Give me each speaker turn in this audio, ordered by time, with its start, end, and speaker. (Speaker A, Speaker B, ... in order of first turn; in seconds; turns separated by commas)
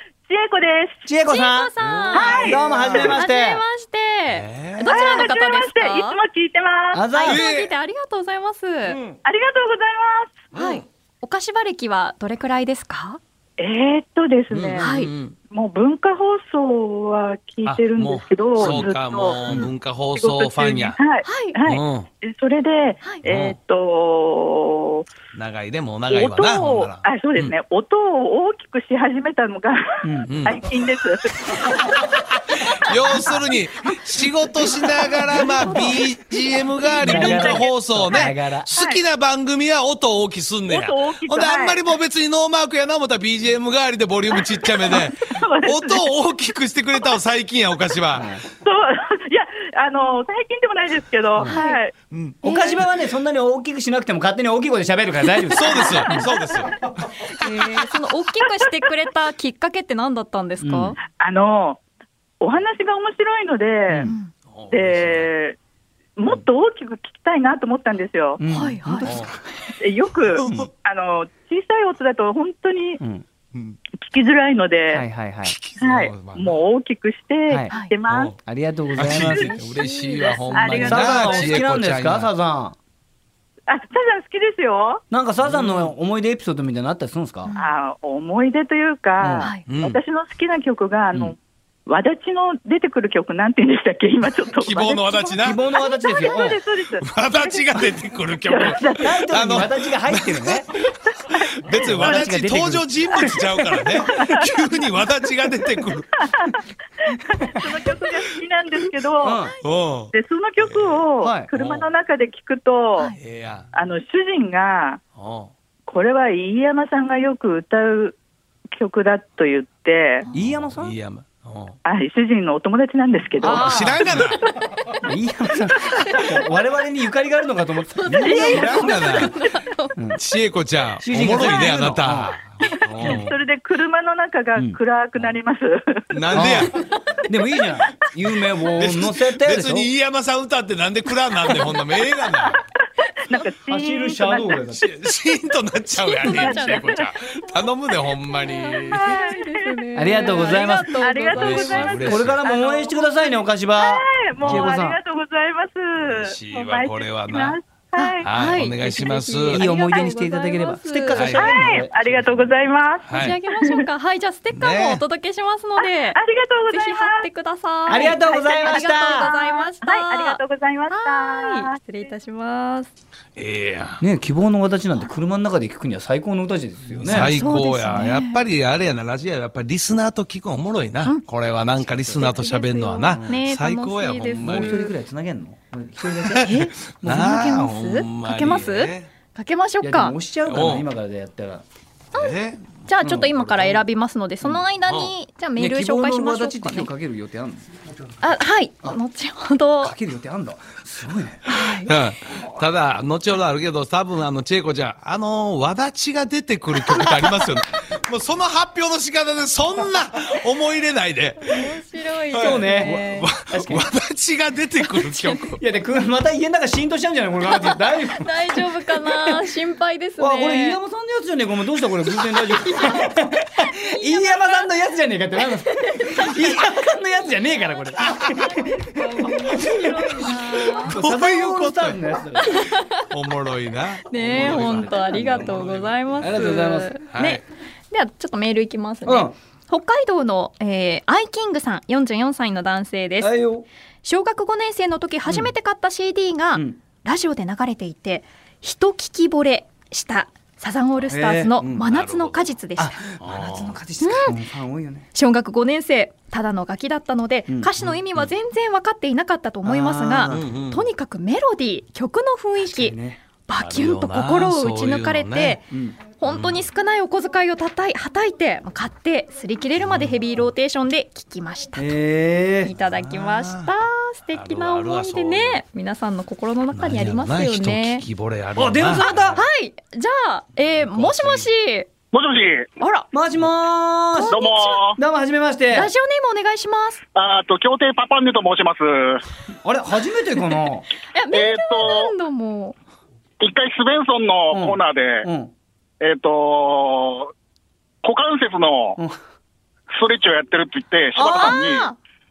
Speaker A: 0.3-1.1, Speaker B: 1.1-1.7, Speaker C: 1.3-2.4, Speaker D: 1.8-3.2, Speaker A: 2.1-2.6, Speaker B: 2.3-3.6, Speaker C: 3.1-6.2, Speaker D: 4.3-5.3, Speaker A: 4.8-7.0, Speaker B: 6.9-7.4, Speaker C: 7.1-9.0, Speaker D: 7.2-7.7, Speaker D: 8.8-9.2, Speaker A: 9.2-10.4, Speaker D: 10.5-10.8, Speaker C: 10.5-13.2, Speaker A: 13.6-14.9, Speaker D: 14.5-15.3, Speaker C: 14.8-15.1, Speaker A: 15.5-25.1, Speaker D: 17.6-21.0, Speaker C: 21.2-21.6, Speaker D: 21.6-22.1, Speaker D: 23.2-23.6, Speaker D: 25.3-27.5, Speaker A: 26.1-32.0, Speaker B: 30.0-30.3, Speaker D: 30.3-30.7, Speaker D: 32.4-48.4, Speaker C: 32.7-33.3, Speaker C: 35.7-36.0, Speaker B: 37.0-38.7, Speaker C: 37.1-37.4, Speaker A: 37.2-37.6, Speaker A: 38.1-39.0, Speaker A: 40.7-41.8, Speaker A: 44.9-46.1, Speaker B: 48.1-48.4, Speaker A: 48.5-51.9, Speaker C: 51.4-51.8, Speaker D: 52.1-52.4, Speaker B: 52.4-56.3, Speaker C: 52.4-52.8, Speaker D: 55.5-56.9, Speaker C: 57.3-61.0, Speaker B: 60.6-60.9, Speaker A: 61.1-61.8, Speaker A: 62.4-64.1, Speaker C: 64.0-64.3, Speaker D: 64.5-65.3, Speaker A: 64.7-65.6, Speaker A: 66.2-68.4, Speaker B: 68.4-69.4, Speaker C: 68.5-69.2, Speaker D: 69.0-69.3, Speaker A: 69.8-73.0, Speaker D: 70.3-70.6, Speaker A: 74.0-75.0, Speaker B: 74.9-75.6, Speaker D: 75.4-76.6, Speaker A: 75.8-78.3, Speaker B: 77.5-77.8, Speaker D: 78.1-78.3, Speaker B: 78.3-79.5, Speaker D: 79.0-82.3, Speaker A: 79.0-79.5, Speaker C: 79.5-80.9, Speaker A: 80.5-81.7, Speaker B: 80.8-82.8, Speaker A: 83.7-85.0, Speaker B: 85.1-87.5, Speaker D: 85.5-85.9, Speaker C: 87.5-87.7, Speaker A: 87.5-97.8, Speaker B: 89.2-89.5, Speaker D: 89.7-90.0, Speaker D: 94.6-95.6, Speaker B: 95.4-96.6, Speaker D: 97.0-100.7, Speaker A: 98.5-99.2, Speaker B: 99.0-100.7, Speaker D: 101.3-106.3, Speaker B: 101.7-103.2, Speaker A: 102.0-102.3, Speaker A: 104.0-104.5, Speaker A: 106.4-109.4, Speaker B: 109.2-109.5, Speaker D: 109.6-111.0, Speaker A: 110.1-113.1, Speaker B: 111.2-111.5, Speaker D: 111.5-111.9, Speaker D: 113.2-113.7, Speaker A: 113.7-115.0, Speaker D: 115.2-115.5, Speaker A: 115.9-118.2, Speaker A: 118.7-120.3, Speaker B: 120.3-120.9, Speaker D: 120.8-121.8, Speaker A: 121.8-123.8, Speaker B: 123.4-124.2, Speaker D: 123.5-124.4, Speaker B: 125.0-128.9, Speaker C: 127.9-130.0, Speaker A: 128.2-129.0, Speaker D: 128.4-129.3, Speaker D: 130.1-133.4, Speaker B: 131.0-132.3, Speaker A: 133.0-136.5, Speaker B: 133.0-133.3, Speaker D: 136.1-136.7, Speaker B: 136.3-139.9, Speaker C: 136.7-137.3, Speaker C: 138.6-138.9, Speaker D: 138.8-142.6, Speaker A: 143.2-144.8, Speaker B: 143.7-144.8, Speaker D: 144.7-149.2, Speaker C: 146.0-147.0, Speaker A: 146.2-147.4, Speaker C: 148.6-152.1, Speaker A: 148.9-158.3, Speaker B: 149.9-151.0, Speaker D: 151.3-152.4, Speaker B: 152.0-155.0, Speaker D: 154.4-154.7, Speaker D: 156.0-157.6, Speaker C: 157.9-161.3, Speaker D: 158.2-159.7, Speaker B: 159.5-162.5, Speaker D: 161.1-161.6, Speaker A: 161.3-163.8, Speaker D: 163.0-163.4, Speaker C: 163.1-172.9, Speaker D: 164.6-165.0, Speaker A: 165.8-167.3, Speaker B: 167.9-169.3, Speaker A: 167.9-171.8, Speaker D: 173.3-174.0, Speaker B: 174.0-177.4, Speaker D: 176.9-184.9, Speaker C: 177.1-178.4, Speaker C: 182.1-184.9, Speaker B: 183.1-183.4, Speaker B: 184.4-187.3, Speaker D: 186.2-189.1, Speaker C: 186.3-190.2, Speaker B: 189.8-191.6, Speaker D: 190.5-190.9, Speaker C: 192.1-196.9, Speaker D: 192.1-193.8, Speaker D: 194.8-195.1, Speaker B: 195.6-197.7, Speaker C: 198.2-199.9, Speaker B: 199.8-201.4, Speaker C: 201.4-201.9, Speaker D: 201.8-211.8, Speaker C: 211.4-213.4, Speaker D: 212.3-215.6, Speaker B: 212.4-213.8, Speaker B: 215.6-219.4, Speaker C: 217.4-220.8, Speaker B: 220.2-232.6, Speaker C: 222.3-224.7, Speaker C: 225.7-226.6, Speaker C: 228.2-230.9, Speaker D: 230.8-232.1, Speaker C: 232.4-233.1, Speaker D: 233.0-236.3, Speaker C: 234.1-243.3, Speaker B: 234.2-235.5, Speaker B: 236.2-236.9, Speaker D: 237.1-237.4, Speaker B: 239.1-239.3, Speaker B: 243.2-243.7, Speaker C: 244.0-253.0, Speaker B: 251.1-251.8, Speaker D: 251.7-252.5, Speaker B: 252.8-255.1, Speaker D: 253.2-253.8, Speaker C: 254.0-254.4, Speaker C: 255.1-265.6, Speaker D: 257.8-258.2, Speaker B: 259.6-260.5, Speaker D: 260.3-260.9, Speaker B: 262.6-263.2, Speaker D: 263.5-265.6, Speaker B: 265.7-266.0, Speaker C: 266.2-271.9, Speaker D: 266.2-266.6, Speaker D: 269.8-270.1, Speaker B: 271.8-272.7, Speaker C: 272.6-278.0, Speaker D: 272.8-273.7, Speaker D: 274.3-275.6, Speaker D: 276.7-279.4, Speaker B: 278.6-279.4, Speaker C: 279.3-281.9, Speaker D: 280.8-281.5, Speaker E: 282.1-282.7, Speaker C: 282.8-283.1, Speaker B: 283.1-285.9, Speaker C: 284.1-284.8, Speaker E: 284.3-285.0, Speaker C: 285.7-287.0, Speaker E: 287.1-289.2, Speaker B: 289.6-290.9, Speaker C: 291.1-292.7, Speaker E: 291.3-292.1, Speaker E: 293.4-295.3, Speaker B: 294.5-295.5, Speaker E: 296.0-297.3, Speaker E: 298.0-299.0, Speaker E: 299.9-301.9, Speaker B: 301.1-301.7, Speaker C: 301.1-302.0